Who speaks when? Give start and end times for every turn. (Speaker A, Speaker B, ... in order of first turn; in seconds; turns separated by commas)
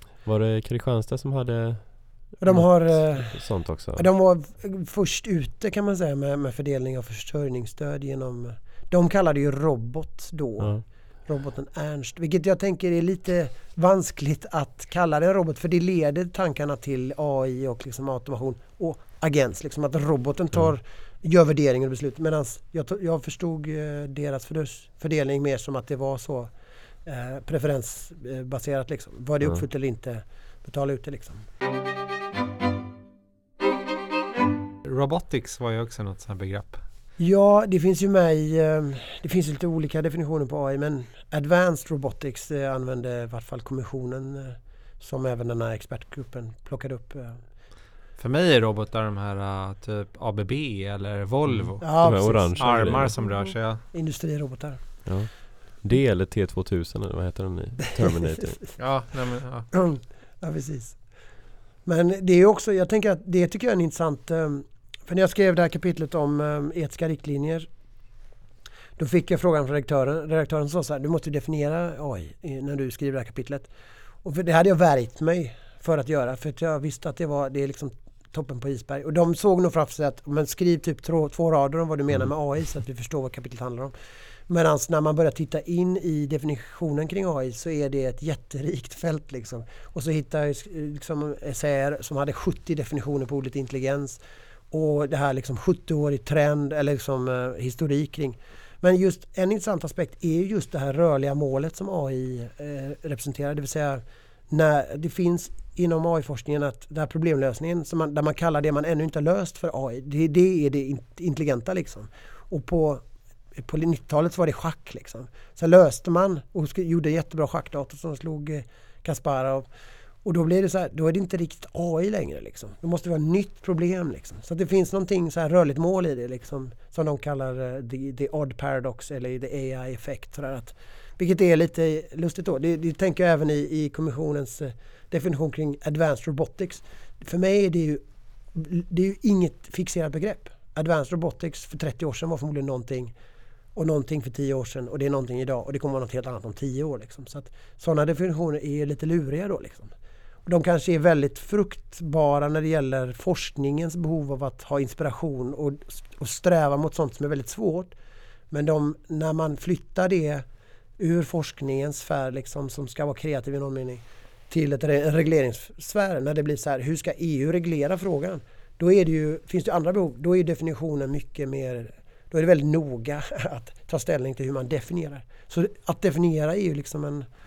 Speaker A: 0.2-4.0, Speaker B: 2.4-26.5, Speaker A: 10.6-10.8, Speaker B: 27.0-31.4, Speaker C: 34.8-36.8, Speaker B: 37.2-47.4, Speaker C: 48.2-53.8, Speaker A: 51.5-53.2, Speaker B: 51.8-55.0, Speaker A: 55.0-58.8, Speaker C: 58.8-59.7, Speaker B: 59.7-61.0, Speaker B: 61.8-67.7, Speaker B: 69.0-73.7, Speaker B: 74.2-83.9, Speaker B: 84.5-94.2, Speaker B: 94.7-113.0, Speaker B: 113.5-119.7, Speaker B: 120.2-138.0, Speaker B: 138.5-143.1, Speaker B: 143.7-149.9, Speaker B: 150.4-157.9, Speaker B: 158.5-160.4, Speaker B: 161.0-177.2